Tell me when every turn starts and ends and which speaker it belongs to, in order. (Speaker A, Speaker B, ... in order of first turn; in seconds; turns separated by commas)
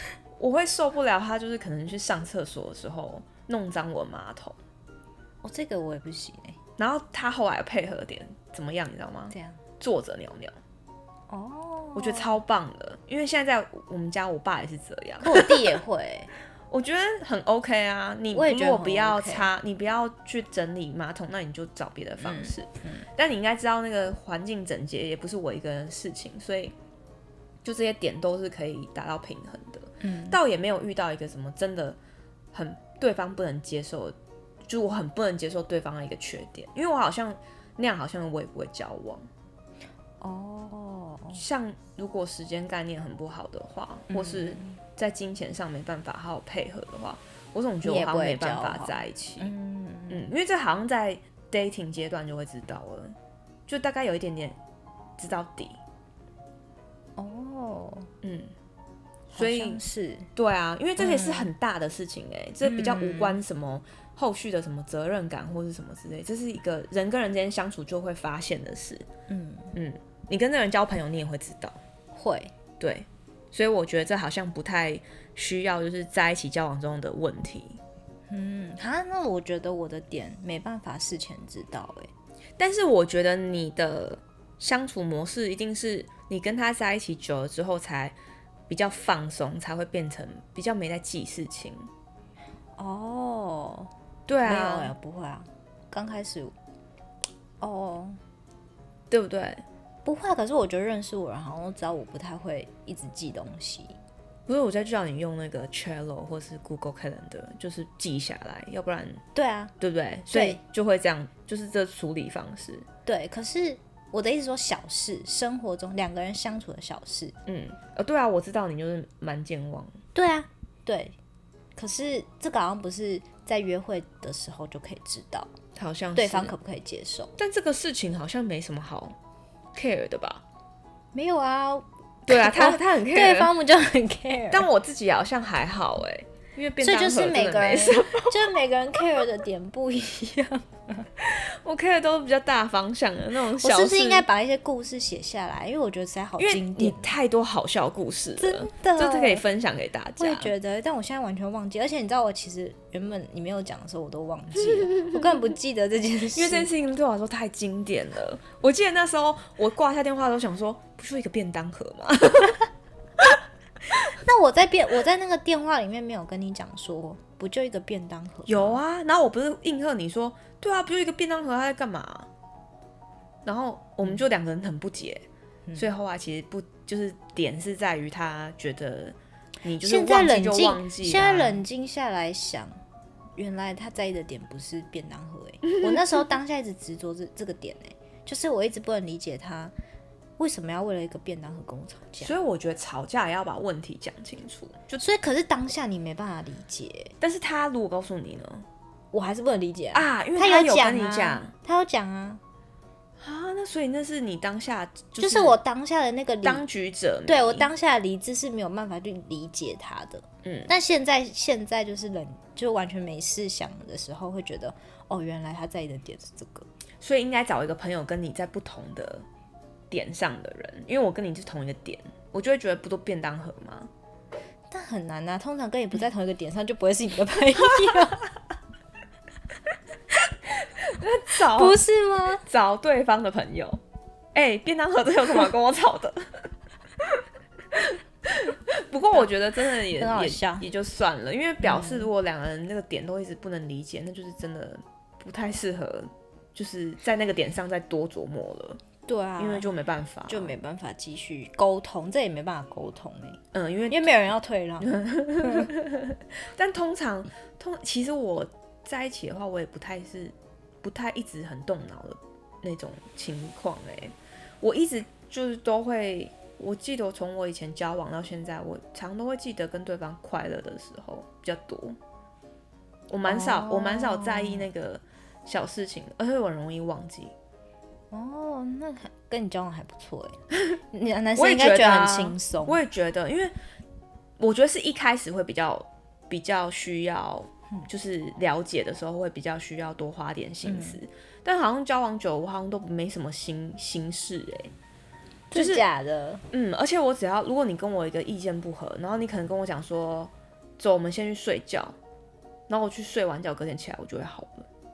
Speaker A: 0.4-4.6, Speaker B: 5.4-6.6, Speaker A: 6.8-10.6, Speaker B: 9.3-9.6, Speaker B: 11.3-12.3, Speaker A: 11.9-15.6, Speaker B: 15.2-16.3, Speaker A: 16.7-26.7, Speaker B: 18.3-19.5, Speaker B: 22.2-23.1, Speaker A: 27.6-32.0, Speaker B: 30.0-30.4, Speaker A: 32.5-34.1, Speaker A: 34.7-39.3, Speaker B: 40.2-41.4, Speaker A: 41.3-49.5, Speaker B: 44.1-44.8, Speaker B: 47.8-50.3, Speaker A: 50.1-53.1, Speaker A: 53.7-54.6, Speaker A: 55.2-55.8, Speaker B: 57.2-58.1, Speaker A: 58.2-58.5, Speaker A: 59.3-59.8, Speaker B: 59.4-60.3, Speaker A: 60.4-69.0, Speaker B: 61.0-61.5, Speaker B: 62.6-63.4, Speaker B: 69.3-69.7, Speaker A: 69.7-71.8, Speaker B: 72.1-72.5, Speaker A: 72.8-77.8, Speaker B: 78.3-82.1, Speaker A: 82.6-88.2, Speaker A: 88.7-91.9, Speaker B: 92.8-93.9, Speaker A: 94.3-94.9, Speaker B: 94.4-96.5, Speaker B: 97.6-98.2, Speaker A: 99.1-99.6, Speaker B: 100.0-104.0, Speaker A: 104.5-109.2, Speaker B: 109.3-109.7, Speaker A: 109.8-112.8, Speaker B: 110.3-110.6, Speaker B: 113.0-117.3, Speaker A: 117.5-119.9, Speaker B: 120.1-121.1, Speaker B: 121.8-125.5, Speaker A: 125.8-126.5, Speaker B: 126.2-127.3, Speaker A: 127.4-129.2, Speaker A: 129.7-130.4, Speaker B: 131.1-134.7, Speaker A: 132.3-133.5, Speaker A: 134.5-138.5, Speaker B: 136.8-141.1, Speaker A: 141.2-144.3, Speaker B: 143.6-147.1, Speaker A: 146.4-150.5, Speaker B: 148.4-149.4, Speaker B: 150.2-156.7, Speaker A: 154.7-155.2, Speaker A: 156.3-162.7, Speaker B: 164.1-168.8, Speaker A: 168.4-172.3, Speaker A: 173.4-181.6, Speaker B: 179.8-182.7, Speaker B: 183.4-189.7, Speaker B: 190.4-192.3, Speaker A: 192.2-195.0, Speaker B: 195.0-197.1, Speaker A: 197.2-198.7, Speaker B: 199.1-202.4, Speaker A: 199.9-201.5, Speaker A: 203.2-205.6, Speaker B: 205.2-206.6, Speaker A: 206.4-207.7, Speaker B: 207.2-216.7, Speaker A: 210.4-210.7, Speaker A: 217.0-219.2, Speaker A: 219.9-223.9, Speaker B: 224.7-228.3, Speaker A: 230.6-231.8, Speaker B: 231.5-232.4, Speaker A: 232.4-233.8, Speaker A: 234.3-236.5, Speaker A: 237.7-248.8, Speaker B: 239.9-240.7, Speaker B: 241.6-242.1, Speaker B: 249.1-249.7, Speaker A: 249.4-250.5, Speaker B: 250.3-255.7, Speaker A: 253.5-254.2, Speaker A: 254.8-272.0, Speaker A: 273.1-277.3, Speaker B: 273.2-274.7, Speaker B: 278.1-282.8, Speaker A: 281.4-283.5, Speaker A: 284.4-294.7, Speaker B: 290.6-291.0, Speaker B: 295.5-296.4, Speaker A: 295.5-295.8, Speaker A: 296.5-301.9, Speaker A: 302.7-304.7